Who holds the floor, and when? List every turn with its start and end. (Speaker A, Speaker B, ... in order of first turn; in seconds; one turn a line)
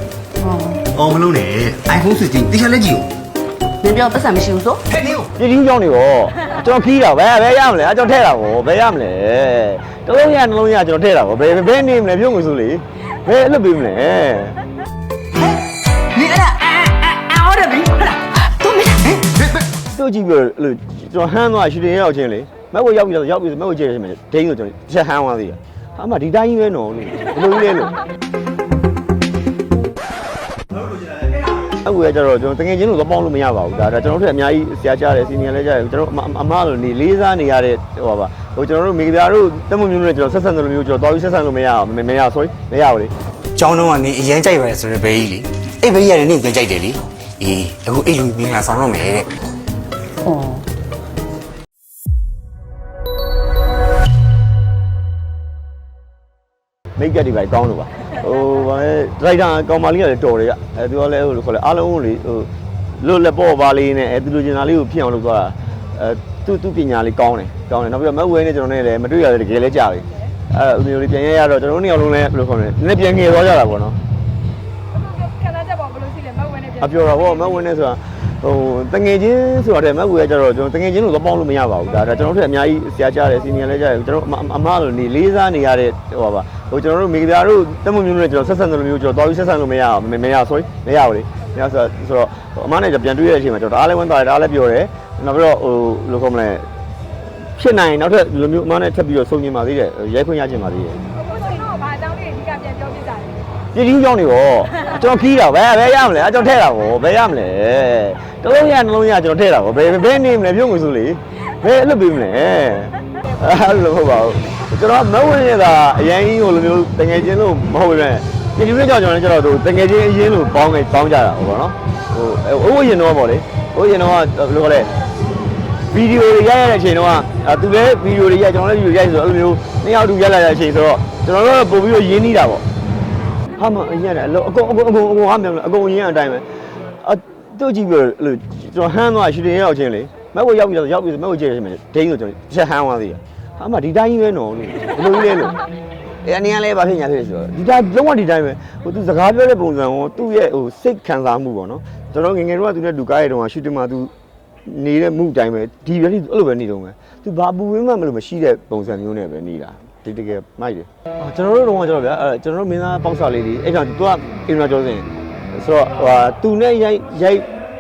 Speaker A: 0.4-0.9
Speaker B: 0.9-3.1
Speaker A: 3.8-4.9
Speaker C: 5.2-14.6
Speaker A: 15.3-15.6
Speaker A: 16.1-19.7
Speaker C: 19.9-28.0
Speaker C: 31.7-43.1
Speaker B: 43.6-49.4
Speaker A: 50.2-50.6
Speaker C: 57.0-62.5
Speaker C: 63.0-74.0
Speaker D: 75.0-76.8
Speaker C: 76.8-96.7
Speaker C: 97.5-101.0
Speaker D: 101.3-103.4
Speaker C: 103.7-124.9
Speaker C: 125.9-132.6
Speaker C: 133.6-136.5
Speaker C: 137.0-145.6
Speaker C: 146.2-154.1
Speaker C: 154.7-167.5